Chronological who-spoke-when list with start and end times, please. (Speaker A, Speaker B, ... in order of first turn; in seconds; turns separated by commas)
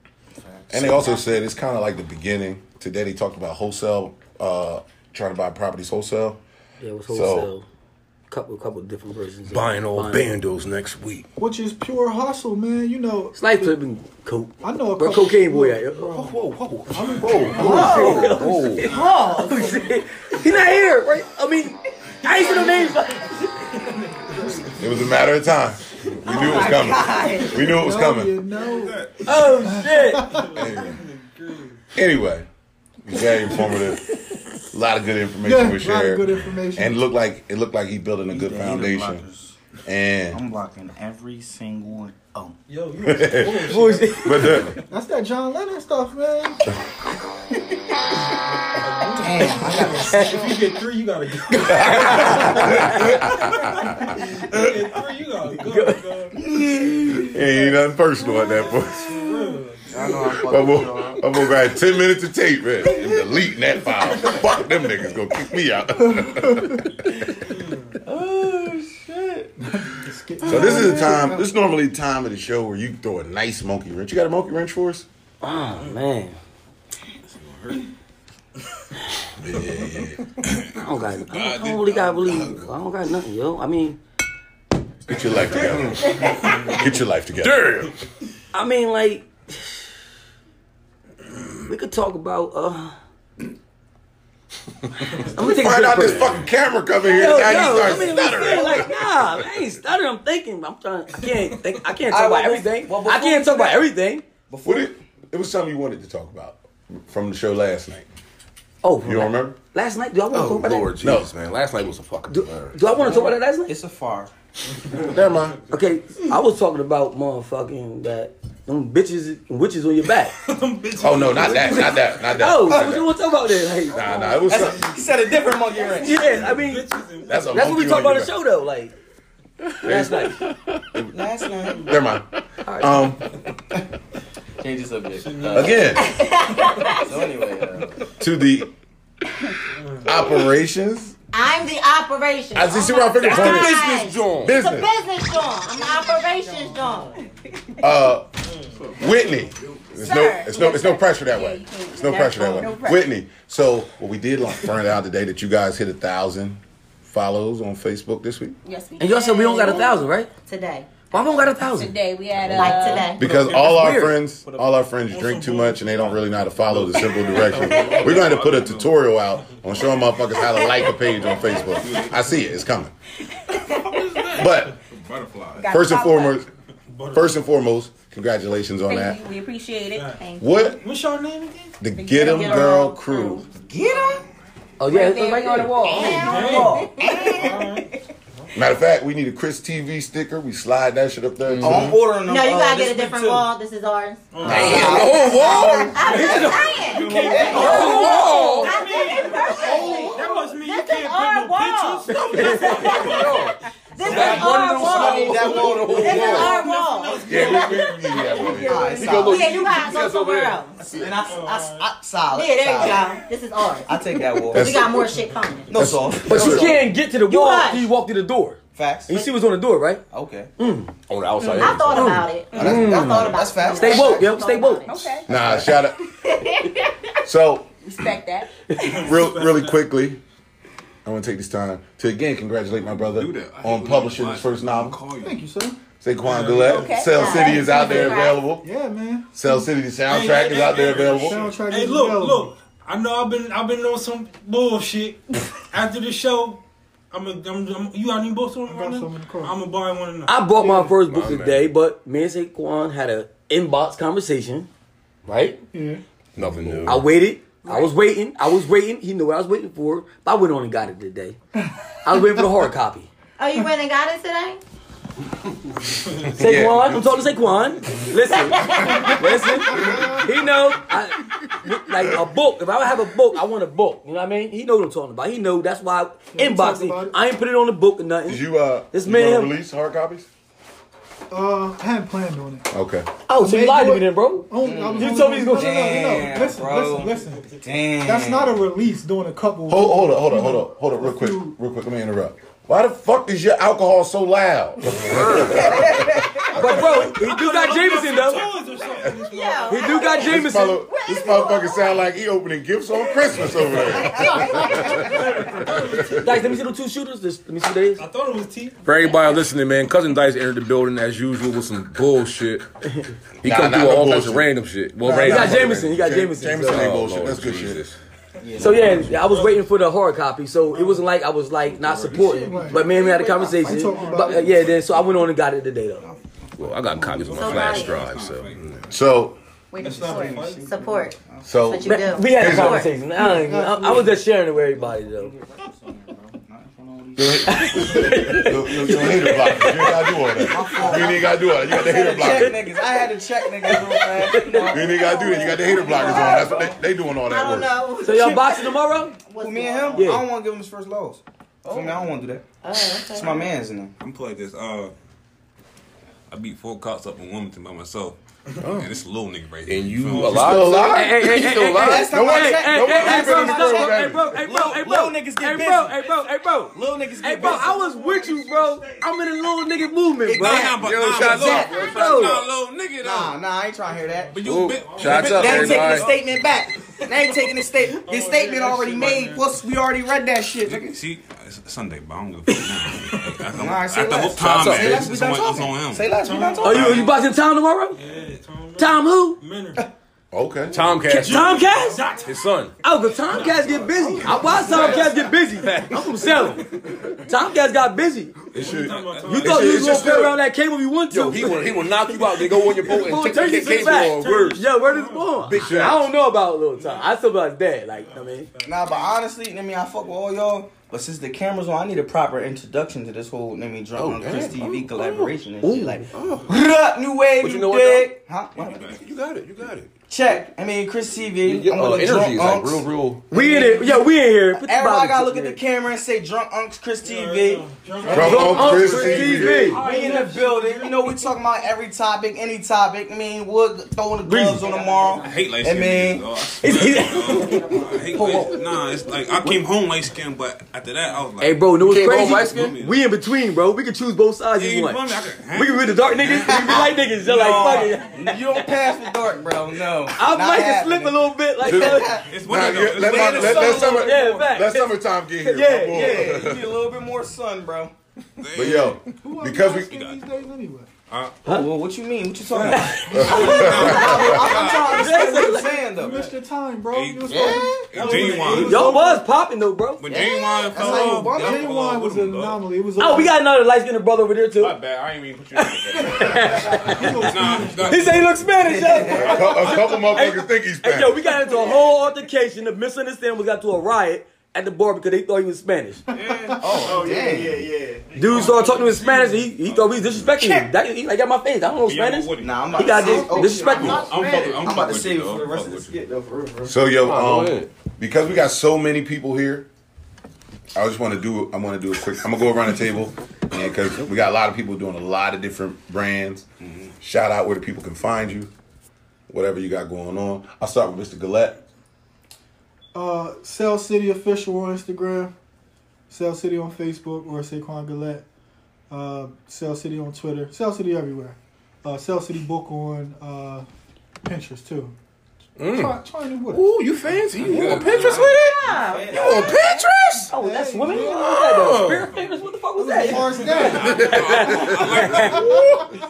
Speaker A: 0.4-1.3, Speaker B: 0.7-6.4, Speaker C: 6.8-7.6, Speaker B: 7.1-7.5, Speaker C: 8.3-10.3, Speaker D: 9.5-11.3, Speaker E: 11.4-13.8, Speaker C: 13.3-16.1, Speaker E: 14.6-18.6, Speaker D: 16.1-19.0, Speaker F: 16.9-17.9, Speaker G: 17.0-17.3, Speaker C: 17.6-23.4, Speaker H: 17.7-18.2, Speaker H: 18.8-19.9, Speaker F: 22.2-23.1, Speaker F: 23.9-24.7, Speaker B: 24.8-28.4, Speaker H: 26.2-27.6, Speaker A: 27.0-27.3, Speaker E: 27.6-29.1, Speaker G: 28.5-29.6, Speaker C: 29.2-30.3, Speaker E: 29.6-30.5, Speaker F: 30.2-31.8, Speaker B: 30.6-31.0, Speaker B: 31.9-32.5, Speaker B: 33.0-34.1, Speaker B: 34.7-39.2, Speaker E: 35.4-37.0, Speaker A: 38.3-39.5, Speaker B: 39.8-40.4, Speaker A: 40.3-42.6, Speaker F: 42.7-44.8, Speaker B: 43.0-44.8, Speaker C: 43.7-44.6, Speaker E: 44.9-46.7, Speaker F: 48.7-56.5, Speaker A: 49.2-50.6, Speaker E: 49.4-49.9, Speaker C: 50.0-50.4, Speaker B: 51.6-54.0, Speaker C: 51.9-52.9, Speaker C: 55.6-56.0, Speaker A: 56.3-57.5, Speaker F: 57.1-60.3, Speaker B: 57.2-59.1, Speaker A: 59.0-61.8, Speaker B: 60.4-66.9, Speaker A: 62.8-63.3, Speaker E: 66.1-66.7, Speaker F: 67.4-68.0, Speaker A: 68.0-69.5, Speaker E: 69.6-71.5, Speaker B: 70.4-75.0, Speaker C: 75.4-76.4, Speaker G: 77.2-77.9, Speaker B: 79.4-80.3, Speaker G: 80.5-82.7, Speaker C: 80.7-84.0, Speaker B: 85.1-87.8, Speaker D: 85.8-86.1, Speaker D: 87.4-87.9, Speaker C: 88.5-89.8, Speaker C: 91.7-92.9, Speaker C: 95.2-96.4, Speaker B: 95.4-99.4, Speaker C: 97.0-104.2, Speaker A: 102.1-103.9, Speaker A: 104.5-104.9, Speaker B: 104.6-108.0, Speaker C: 108.8-110.9, Speaker B: 109.0-109.5, Speaker D: 110.3-113.0, Speaker B: 111.0-111.3, Speaker C: 112.3-113.7, Speaker A: 113.0-114.3, Speaker F: 114.9-115.5, Speaker B: 115.1-115.5, Speaker D: 115.1-115.5, Speaker C: 115.7-120.3, Speaker F: 120.4-122.0, Speaker B: 121.0-123.1, Speaker C: 121.3-124.4, Speaker B: 123.9-125.0, Speaker A: 124.4-126.2, Speaker F: 125.9-128.0, Speaker C: 126.0-126.9, Speaker B: 127.2-128.3, Speaker C: 127.4-128.9, Speaker B: 129.8-130.3, Speaker C: 129.8-130.4, Speaker B: 130.8-131.1, Speaker A: 131.1-131.9, Speaker F: 131.5-132.0, Speaker B: 131.8-132.2, Speaker C: 132.6-133.1, Speaker B: 132.8-133.2, Speaker A: 134.6-135.9, Speaker F: 135.2-136.1, Speaker B: 135.5-136.2, Speaker H: 136.0-137.1, Speaker A: 136.9-138.1, Speaker B: 138.2-138.7, Speaker F: 139.7-140.2, Speaker B: 140.0-141.1, Speaker H: 141.3-147.2, Speaker B: 142.5-144.9, Speaker D: 143.1-144.6, Speaker A: 145.8-146.7, Speaker B: 147.8-148.3, Speaker F: 148.4-148.8, Speaker B: 148.9-158.6, Speaker I: 150.0-153.1, Speaker I: 158.6-159.9, Speaker C: 159.0-160.3, Speaker H: 160.5-161.1, Speaker C: 161.1-161.9, Speaker I: 161.5-163.1, Speaker H: 162.6-163.2, Speaker B: 163.1-172.9, Speaker G: 163.2-163.5, Speaker F: 163.3-163.8, Speaker C: 163.5-164.2, Speaker F: 165.1-165.9, Speaker F: 167.1-168.1, Speaker G: 167.3-168.9, Speaker F: 169.4-170.0, Speaker H: 170.4-170.8, Speaker G: 171.5-172.3, Speaker H: 173.5-174.2, Speaker G: 173.8-175.7, Speaker B: 174.3-174.8, Speaker I: 175.6-176.4, Speaker B: 175.6-176.5, Speaker F: 176.9-177.4, Speaker B: 177.1-179.2, Speaker I: 178.9-180.2, Speaker F: 179.9-181.8, Speaker B: 180.4-180.8, Speaker B: 181.8-183.4, Speaker I: 181.9-183.5, Speaker H: 182.2-182.8, Speaker A: 183.5-184.2, Speaker C: 184.8-186.2, Speaker I: 184.8-187.3, Speaker A: 185.8-187.3, Speaker H: 185.8-187.7, Speaker F: 186.2-188.5, Speaker B: 188.5-192.0, Speaker D: 191.4-192.0, Speaker A: 191.6-193.5, Speaker H: 192.2-203.3, Speaker F: 194.3-203.5, Speaker B: 194.4-195.1, Speaker D: 194.4-196.2, Speaker C: 196.0-198.4, Speaker A: 196.9-197.8, Speaker D: 197.5-198.8, Speaker I: 197.6-198.0, Speaker I: 199.7-199.9, Speaker C: 202.1-203.2, Speaker D: 202.4-206.6, Speaker H: 203.9-210.8, Speaker F: 204.0-204.8, Speaker A: 204.2-206.4, Speaker F: 206.1-208.8, Speaker B: 207.2-209.0, Speaker I: 208.2-208.8, Speaker A: 208.6-209.7, Speaker D: 208.9-211.1, Speaker A: 210.9-213.2, Speaker F: 211.2-211.9, Speaker H: 212.3-215.7, Speaker A: 213.9-214.8, Speaker B: 214.5-215.2, Speaker A: 215.7-216.9, Speaker B: 215.7-216.7, Speaker C: 216.2-220.0, Speaker H: 217.1-217.9, Speaker A: 218.7-219.3, Speaker A: 220.1-220.5, Speaker C: 220.6-220.9, Speaker D: 221.1-222.2, Speaker H: 221.4-225.2, Speaker C: 221.9-224.8, Speaker A: 222.5-224.4, Speaker I: 224.8-225.3, Speaker B: 225.2-226.0, Speaker A: 225.3-225.7, Speaker H: 226.2-226.9, Speaker B: 227.2-227.7, Speaker I: 227.8-228.7, Speaker C: 228.7-228.9, Speaker F: 228.8-229.8, Speaker B: 228.9-230.2, Speaker B: 231.0-235.0, Speaker G: 232.9-235.4, Speaker E: 235.2-235.8, Speaker B: 236.0-238.7, Speaker F: 236.2-237.0, Speaker I: 236.6-238.2, Speaker H: 237.1-238.4, Speaker E: 237.4-239.3, Speaker B: 239.3-241.4, Speaker F: 240.0-250.9, Speaker G: 240.8-241.1, Speaker E: 241.1-242.5, Speaker E: 248.7-249.6, Speaker C: 250.2-254.7, Speaker D: 251.0-251.7, Speaker C: 255.3-255.6, Speaker E: 255.7-256.0, Speaker D: 256.4-257.2, Speaker C: 256.8-261.4, Speaker C: 262.0-263.1, Speaker H: 263.4-264.6, Speaker C: 266.3-279.5, Speaker B: 266.4-267.1, Speaker F: 267.1-267.7, Speaker H: 268.6-269.0, Speaker E: 269.6-270.3, Speaker B: 269.7-270.2, Speaker E: 276.3-277.2, Speaker B: 278.2-280.3, Speaker E: 281.3-282.7, Speaker B: 282.7-283.1, Speaker C: 283.3-285.8, Speaker E: 283.3-291.5, Speaker A: 284.6-288.6, Speaker F: 287.1-287.5, Speaker B: 289.7-296.8, Speaker C: 295.1-295.8, Speaker A: 295.4-296.5, Speaker F: 296.5-300.1, Speaker C: 296.5-298.5, Speaker H: 299.2-302.0, Speaker C: 299.7-300.9, Speaker B: 300.2-306.2, Speaker H: 303.0-305.3, Speaker F: 304.8-306.6, Speaker C: 306.2-308.0, Speaker F: 308.0-308.8, Speaker D: 308.8-312.6, Speaker B: 313.4-314.5, Speaker D: 313.4-318.0, Speaker B: 315.1-317.8, Speaker C: 315.1-316.9, Speaker A: 318.4-319.1, Speaker F: 318.5-319.7, Speaker C: 318.6-326.1, Speaker F: 320.7-321.0, Speaker A: 321.8-325.0, Speaker E: 322.1-324.6, Speaker A: 326.0-327.3, Speaker D: 326.6-328.8, Speaker G: 327.0-329.0, Speaker H: 327.2-328.0, Speaker B: 328.9-329.4, Speaker I: 329.7-330.4, Speaker F: 329.8-330.7, Speaker A: 329.8-331.7, Speaker H: 330.6-332.9, Speaker B: 331.4-332.9, Speaker C: 331.8-335.3, Speaker E: 333.1-334.2, Speaker A: 334.7-338.4, Speaker B: 337.1-342.6, Speaker C: 337.4-340.5, Speaker A: 340.4-346.8, Speaker C: 341.9-342.8, Speaker C: 343.6-344.7, Speaker B: 344.7-347.8, Speaker H: 344.8-350.1, Speaker A: 348.0-348.8, Speaker C: 348.0-349.2, Speaker A: 349.3-352.4, Speaker C: 349.9-350.2, Speaker G: 351.6-352.0, Speaker H: 352.6-353.3, Speaker A: 353.0-353.9, Speaker G: 354.0-354.9, Speaker G: 356.3-360.9, Speaker D: 358.6-358.9, Speaker D: 359.6-362.1, Speaker F: 360.1-360.9, Speaker B: 360.3-361.3, Speaker C: 360.9-372.4, Speaker A: 361.7-366.1, Speaker B: 362.1-364.4, Speaker A: 366.7-367.8, Speaker F: 367.0-369.9, Speaker A: 370.2-372.3, Speaker G: 370.3-373.3, Speaker D: 370.9-371.3, Speaker A: 373.0-374.4, Speaker F: 373.9-379.6, Speaker G: 374.3-375.9, Speaker D: 374.4-376.1, Speaker A: 375.2-381.0, Speaker G: 380.6-386.1, Speaker A: 383.5-387.1, Speaker D: 384.4-385.1, Speaker C: 384.6-385.0, Speaker F: 386.1-387.1, Speaker C: 386.6-388.0, Speaker G: 386.7-387.1, Speaker F: 387.9-389.8, Speaker C: 388.8-389.4, Speaker B: 390.3-391.0, Speaker D: 390.7-391.6, Speaker C: 391.1-392.0, Speaker A: 391.1-391.9, Speaker F: 391.1-392.4, Speaker D: 392.2-392.7, Speaker C: 392.8-398.4, Speaker F: 393.2-395.3, Speaker A: 394.3-395.1, Speaker D: 394.7-394.9, Speaker D: 395.5-397.1, Speaker F: 398.5-400.4, Speaker B: 398.5-398.9, Speaker G: 398.5-400.2, Speaker C: 399.3-408.5, Speaker D: 399.3-400.4, Speaker D: 401.1-404.7, Speaker F: 402.7-405.8, Speaker D: 405.4-406.1, Speaker F: 406.7-407.2, Speaker F: 407.9-409.1, Speaker A: 408.6-418.9, Speaker D: 413.9-415.4, Speaker C: 415.6-416.1, Speaker D: 416.1-416.6, Speaker D: 417.4-418.2, Speaker G: 418.6-419.0, Speaker D: 418.8-419.9, Speaker A: 420.1-428.3, Speaker D: 421.4-423.3, Speaker C: 423.3-425.6, Speaker F: 427.0-431.2, Speaker C: 428.1-429.8, Speaker B: 428.1-429.7, Speaker A: 429.4-436.2, Speaker C: 434.2-435.3, Speaker G: 435.2-443.0, Speaker C: 436.6-438.7, Speaker C: 441.4-448.9, Speaker D: 441.8-442.7, Speaker G: 444.6-447.0, Speaker A: 446.4-454.5, Speaker F: 447.2-447.9, Speaker C: 450.1-452.1, Speaker B: 451.6-456.8, Speaker G: 452.2-453.9, Speaker C: 453.4-456.4, Speaker A: 455.9-457.9, Speaker G: 458.4-459.0, Speaker B: 458.5-460.1, Speaker E: 459.2-460.9, Speaker G: 459.6-460.2, Speaker G: 461.1-461.4, Speaker C: 461.4-461.7, Speaker A: 461.4-466.2, Speaker F: 462.5-464.4, Speaker C: 462.7-463.1, Speaker E: 463.1-464.0, Speaker B: 463.1-464.2, Speaker G: 463.2-465.4, Speaker C: 464.6-465.9, Speaker E: 465.6-469.2, Speaker G: 466.9-469.0, Speaker D: 467.3-467.7, Speaker F: 468.0-469.0, Speaker A: 468.0-468.8, Speaker C: 468.4-470.0, Speaker G: 470.0-472.6, Speaker A: 470.1-471.8, Speaker E: 470.8-473.4, Speaker C: 473.0-474.8, Speaker G: 474.6-478.5, Speaker C: 475.5-486.0, Speaker E: 476.2-478.1, Speaker A: 478.6-479.4, Speaker B: 479.1-481.2, Speaker G: 479.4-480.0, Speaker F: 479.4-480.3, Speaker A: 481.5-481.9, Speaker E: 486.1-487.0, Speaker G: 486.1-487.4, Speaker A: 486.6-488.1, Speaker F: 486.9-487.4, Speaker C: 488.1-494.1, Speaker F: 488.2-489.5, Speaker G: 488.2-490.3, Speaker A: 490.4-490.7, Speaker G: 491.8-493.0, Speaker A: 492.4-496.8, Speaker E: 492.9-493.9, Speaker G: 493.6-495.9, Speaker B: 496.6-499.7, Speaker D: 497.0-497.7, Speaker B: 500.7-506.4, Speaker B: 507.0-508.5, Speaker B: 509.3-511.6, Speaker E: 512.9-515.3, Speaker E: 516.1-518.2, Speaker E: 518.9-523.6, Speaker E: 524.2-524.9, Speaker D: 525.6-530.3, Speaker E: 525.6-527.2, Speaker G: 527.3-528.5, Speaker C: 527.5-527.9, Speaker H: 528.2-529.2, Speaker A: 528.7-529.6, Speaker E: 530.2-531.4, Speaker C: 530.3-535.4, Speaker D: 531.0-532.1, Speaker E: 532.8-534.1, Speaker G: 533.6-535.7, Speaker D: 533.8-535.9, Speaker E: 535.4-535.8